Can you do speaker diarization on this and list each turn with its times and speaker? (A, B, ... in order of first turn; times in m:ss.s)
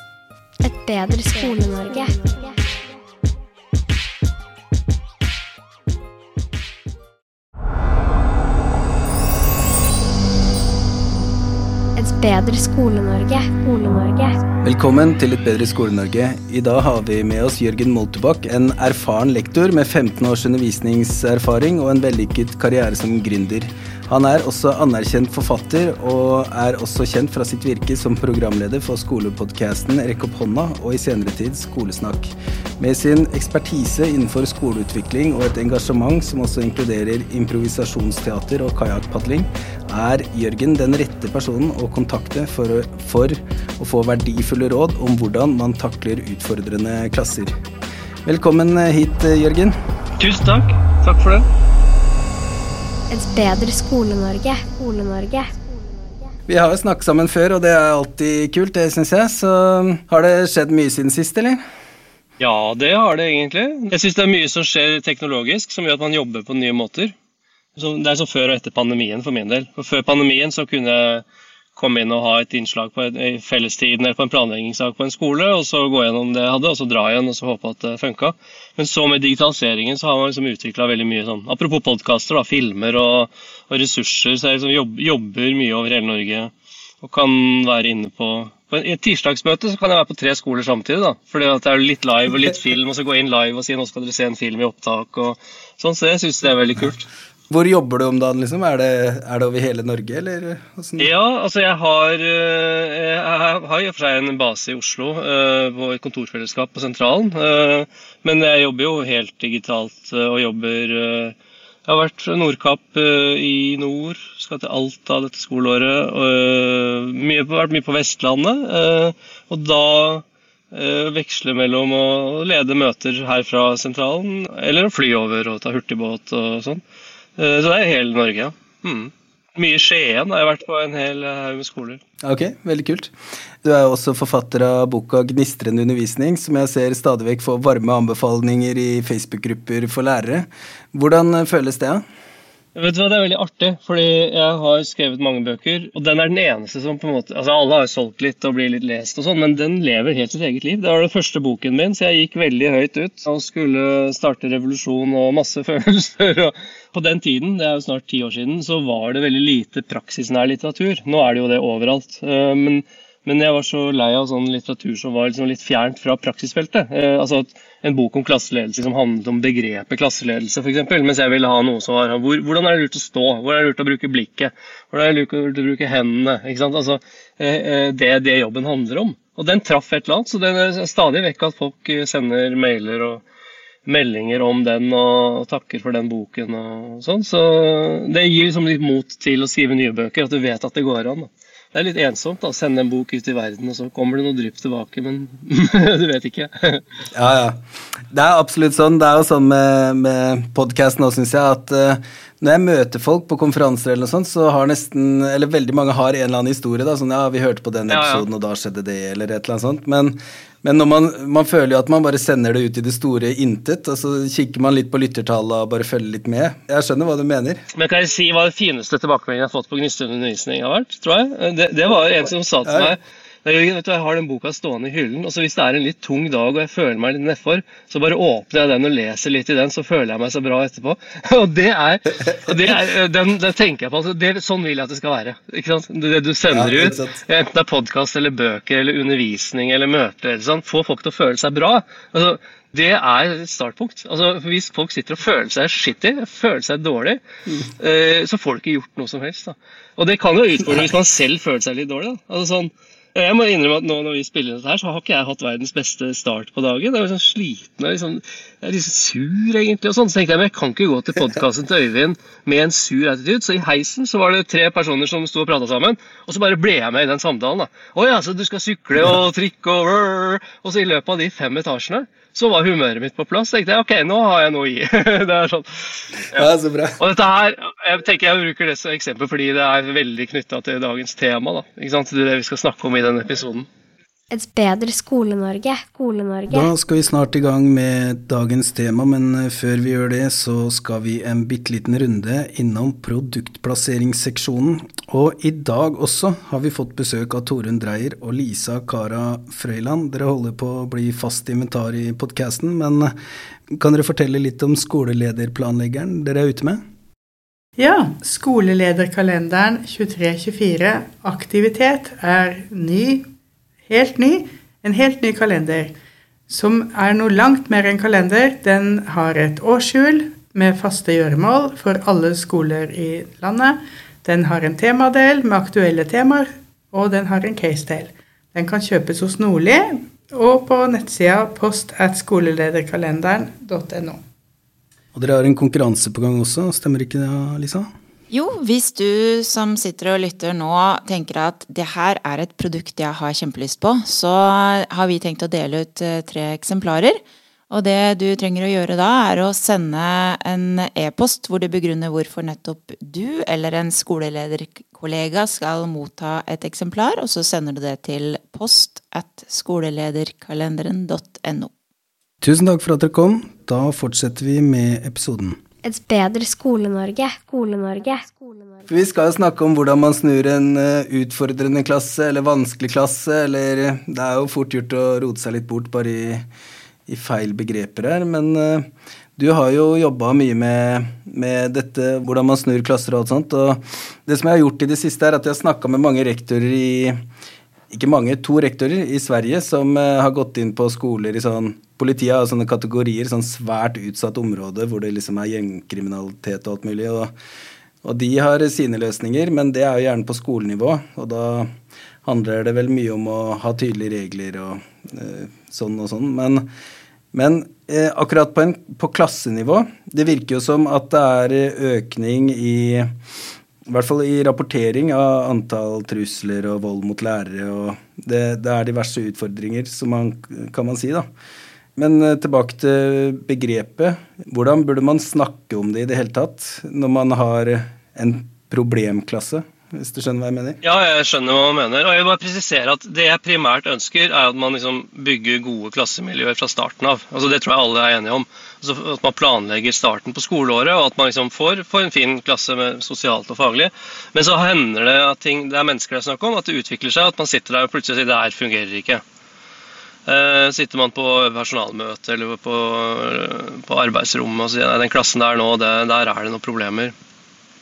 0:00.6-0:02.6 A
0:12.0-0:14.4 A
0:14.6-0:47.5 B
0:48.2-0:49.7 B
0:50.2-0:51.4 C
0:53.1-0:56.3 A
0:56.5-1:01.6 B
1:02.4-1:07.1 C
1:07.8-1:11.2 C
1:11.8-1:37.0 C
1:37.5-1:41.1 B
1:41.0-2:06.8 C
2:07.4-2:12.0 C
2:12.2-2:22.0 B
2:22.7-3:03.2 C
3:03.8-3:16.8 C
3:17.1-3:37.6 B
3:27.9-3:28.2 C
3:37.7-4:07.2 C
3:42.6-3:42.9 B
3:56.5-3:57.2 B
4:07.8-4:36.4 C
4:36.3-4:37.0 B
4:37.0-4:43.7 C
4:44.3-4:46.7 A
4:46.5-5:03.1 B
5:03.7-5:06.8 B
5:07.8-5:13.3 D
5:13.9-5:15.9 D
5:16.5-5:34.2 D
5:35.1-5:37.9 B
5:38.3-6:01.7 E
6:02.4-6:05.6 B
6:05.8-6:08.9 A
6:08.9-6:16.4 B
6:17.1-6:27.2 B
6:27.9-6:37.3 B
6:38.0-6:41.7 B
6:42.2-6:46.7 B
6:47.3-6:53.1 B
6:53.8-7:01.2 B
7:02.0-7:10.8 B
7:10.8-7:29.2 C
7:30.2-7:37.1 C